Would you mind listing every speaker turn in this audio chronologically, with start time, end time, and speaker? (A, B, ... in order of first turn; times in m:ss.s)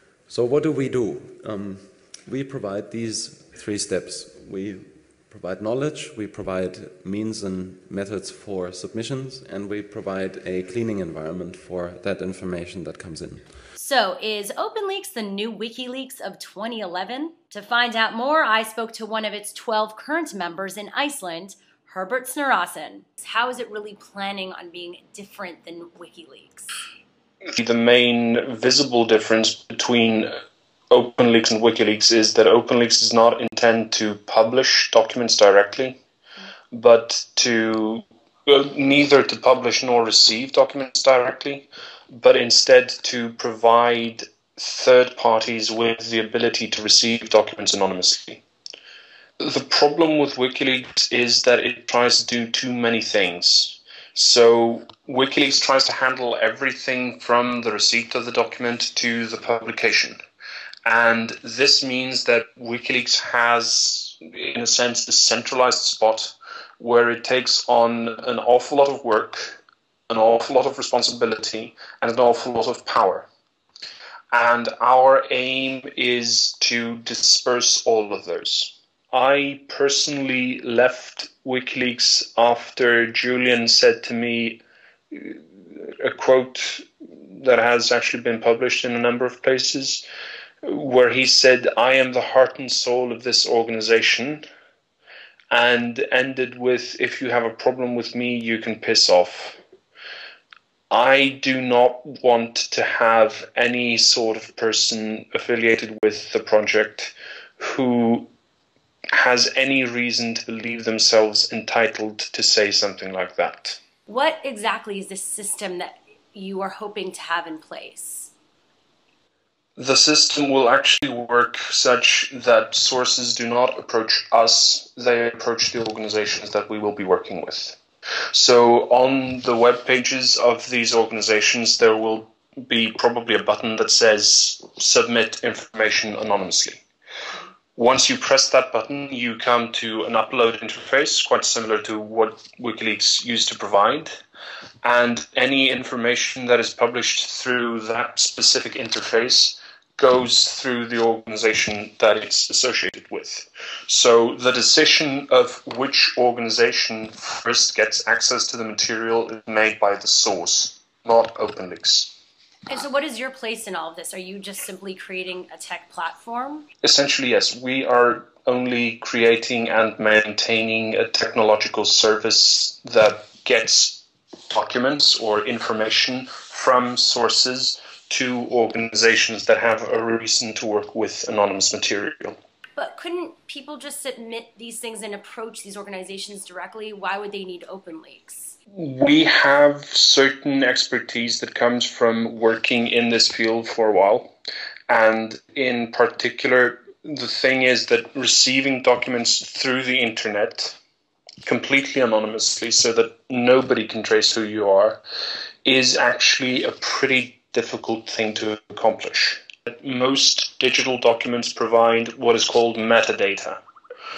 0:00.3-0:13.6 A
0:13.7-0:26.7 B
0:27.5-0:30.3 C
0:30.9-0:36.0 C
0:36.7-0:48.4 C
0:49.4-1:00.2 C
1:00.8-1:13.3 C
1:14.3-1:30.0 C
1:30.6-1:34.4 C
1:35.5-1:39.6 C
1:40.9-1:48.3 C
1:49.1-1:53.8 C
1:54.1-1:58.3 B
1:59.8-2:07.8 C
2:08.3-2:16.8 C
2:17.7-2:24.2 C
2:24.8-2:42.1 C
2:42.7-2:46.6 B
2:46.8-3:02.4 C
3:02.8-3:08.5 B
3:08.7-3:14.3 C
3:14.9-3:20.8 C
3:21.4-3:25.0 C
3:25.6-3:33.6 C